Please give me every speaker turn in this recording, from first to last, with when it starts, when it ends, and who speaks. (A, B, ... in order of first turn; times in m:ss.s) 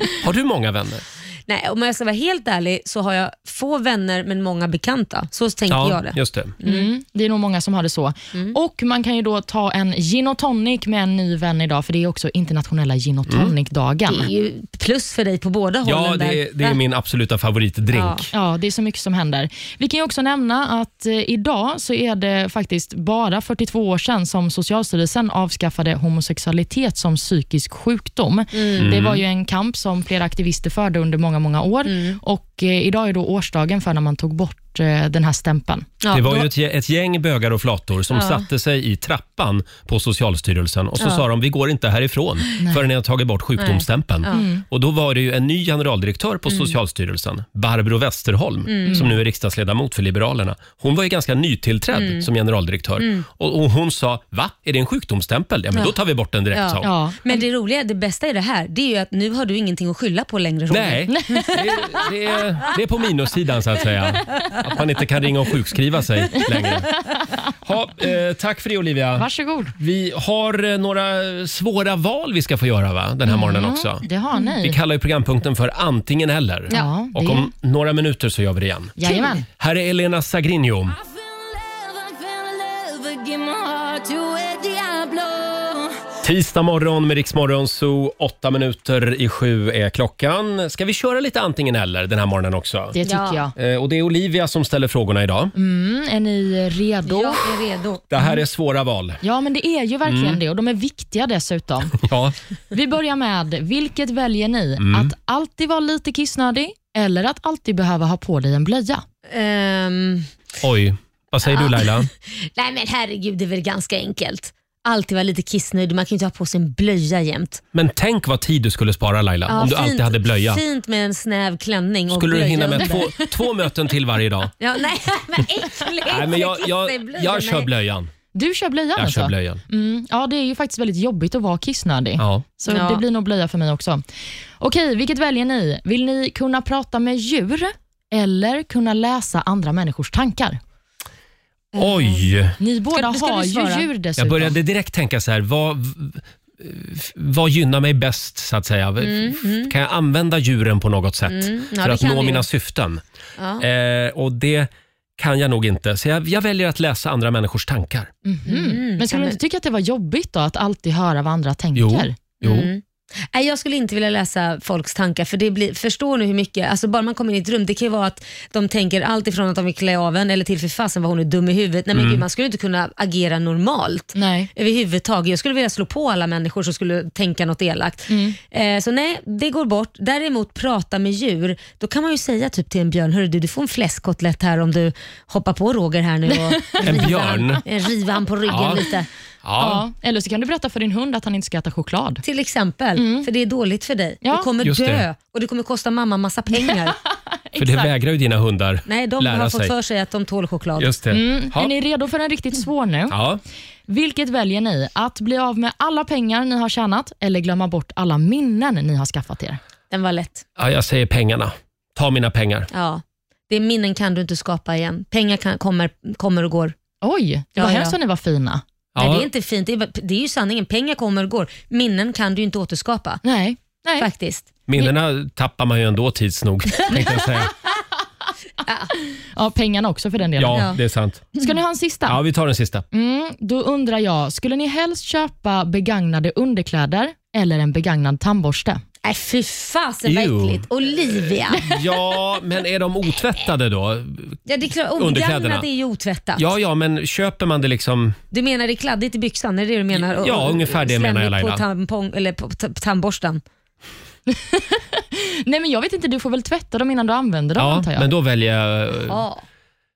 0:00.2-0:01.0 A
0:01.5-0:06.9 B
0:05.7-0:06.5 A
0:06.6-0:14.3 C
0:13.3-0:13.5 A
0:14.1-0:16.8 B
0:15.8-0:18.3 A
0:17.9-0:18.3 B
0:18.3-0:35.9 C
0:28.5-0:28.9 B
0:28.8-0:29.2 A
0:31.9-0:32.2 B
0:36.0-0:36.5 B
0:36.1-0:56.9 A
0:38.1-0:38.4 B
0:41.0-0:41.2 B
0:42.6-0:42.8 C
0:43.6-0:44.5 B
0:44.3-0:44.6 C
0:46.5-0:46.8 B
0:48.7-0:49.1 B
0:48.9-0:49.2 C
0:51.9-0:52.3 B
0:53.0-0:53.3 B
0:56.5-1:02.1 B
0:56.8-0:57.4 C
1:00.7-1:06.9 A
1:01.1-1:01.5 C
1:06.9-1:07.2 C
1:07.6-1:19.0 A
1:09.2-1:09.8 C
1:13.3-1:14.8 C
1:16.7-1:17.5 C
1:19.0-1:19.4 C
1:19.5-1:21.0 A
1:21.8-1:22.4 C
1:23.1-1:25.9 C
1:26.2-1:33.0 A
1:33.0-1:33.5 C
1:33.0-1:33.4 B
1:33.6-1:35.5 A
1:35.6-1:37.5 C
1:37.1-1:38.0 B
1:38.1-1:39.2 A
1:39.2-1:42.0 C
1:40.0-1:40.4 A
1:42.0-1:42.4 A
1:42.7-1:49.0 C
1:44.8-1:45.1 A
1:49.3-1:50.3 B
1:50.6-1:52.1 A
1:51.4-1:57.6 B
1:57.7-2:00.6 A
1:59.5-2:03.1 B
2:02.1-2:04.6 A
2:02.8-2:03.4 C
2:04.6-2:07.7 B
2:06.1-2:08.1 A
2:08.3-2:14.0 C
2:09.0-2:09.6 A
2:12.2-2:12.5 A
2:12.7-2:13.0 B
2:14.6-2:20.6 C
2:21.7-2:22.3 B
2:21.8-2:22.6 A
2:22.6-2:24.6 C
2:22.9-2:23.9 B
2:24.2-2:33.0 A
2:29.0-2:29.7 B
2:31.3-2:32.5 B
2:33.4-2:33.6 B
2:33.6-2:38.1 A
2:38.2-2:42.2 C
2:38.5-2:39.4 B
2:41.8-2:42.7 A
2:42.4-3:09.1 B
2:51.9-2:52.2 A
2:54.2-2:54.5 C
2:58.1-2:58.4 C
3:06.3-3:06.9 C
3:06.8-3:07.6 A
3:08.5-3:08.8 A
3:09.4-3:09.8 A
3:09.6-3:12.2 C
3:12.2-3:17.0 B
3:13.0-3:13.3 C
3:14.6-3:15.0 A
3:16.6-3:17.9 C
3:17.6-3:19.7 A
3:18.9-3:20.9 B
3:20.8-3:21.7 A
3:21.1-3:23.2 C
3:23.1-3:23.4 A
3:23.9-3:29.6 C
3:29.9-3:30.5 B
3:30.6-3:32.7 A
3:32.7-3:36.8 B
3:37.0-3:38.6 C
3:37.6-3:38.0 B
3:39.0-3:39.3 A
3:39.0-3:43.2 B
3:43.2-3:44.1 C
3:44.0-3:44.5 B
3:44.7-3:47.5 A
3:48.6-3:48.9 B
3:49.4-3:50.7 C
3:50.4-3:51.3 A
3:50.5-3:50.8 B
3:51.4-3:52.2 C
3:52.1-3:52.8 A
3:52.9-3:58.8 C
3:59.0-4:01.7 B
4:00.0-4:04.4 A
4:04.5-4:06.5 B
4:05.0-4:05.7 A
4:06.4-4:08.2 A
4:08.3-4:13.4 B
4:09.9-4:11.6 A
4:14.3-4:18.1 C
4:17.6-4:19.2 A
4:18.9-4:19.4 B